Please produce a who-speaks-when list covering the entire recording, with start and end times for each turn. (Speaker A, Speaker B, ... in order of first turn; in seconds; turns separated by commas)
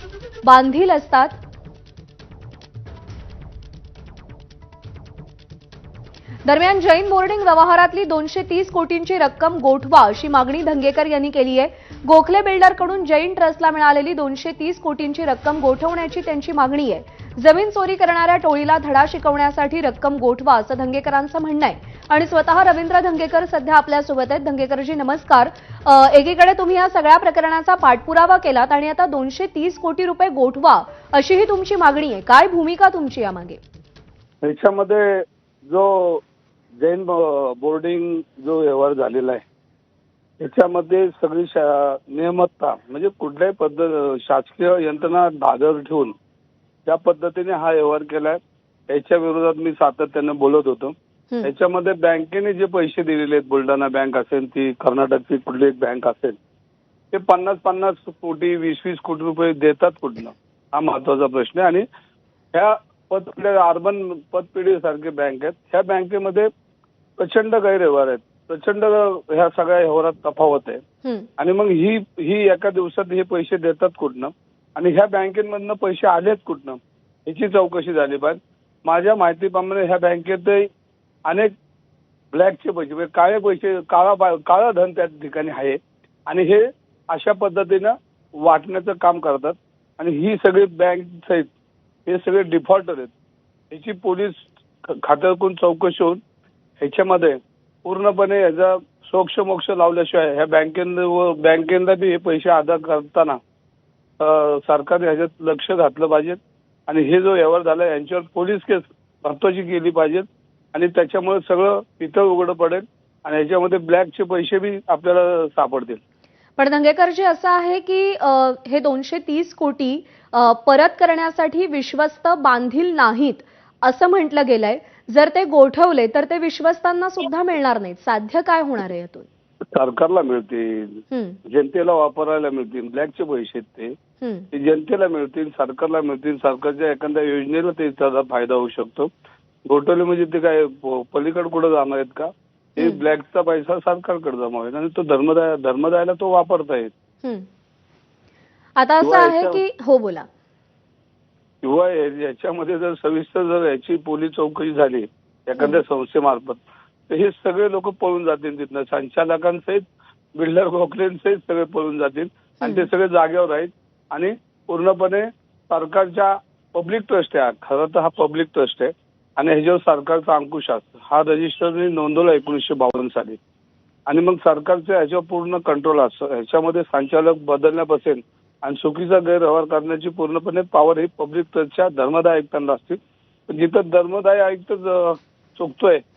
Speaker A: 0.4-1.4, Speaker A: 6.4-33.6, Speaker B: 34.4-36.2, Speaker B: 36.8-39.4, Speaker B: 40.4-46.1, Speaker B: 46.9-56.4, Speaker B: 57.1-61.9, Speaker B: 62.5-66.5, Speaker B: 67.2-70.8, Speaker A: 71.0-71.3, Speaker B: 71.4-80.7, Speaker B: 81.3-81.5, Speaker B: 82.3-91.5, Speaker B: 92.0-93.1, Speaker B: 93.7-96.2, Speaker B: 96.8-103.4, Speaker B: 104.2-116.0, Speaker A: 116.6-129.3, Speaker B: 129.7-133.9, Speaker A: 131.1-131.4, Speaker A: 134.2-134.5, Speaker B: 134.5-139.1, Speaker B: 139.7-146.9, Speaker A: 148.8-150.3, Speaker B: 149.0-149.6, Speaker B: 151.6-159.8, Speaker B: 160.3-173.4, Speaker A: 162.6-162.9, Speaker B: 174.1-186.0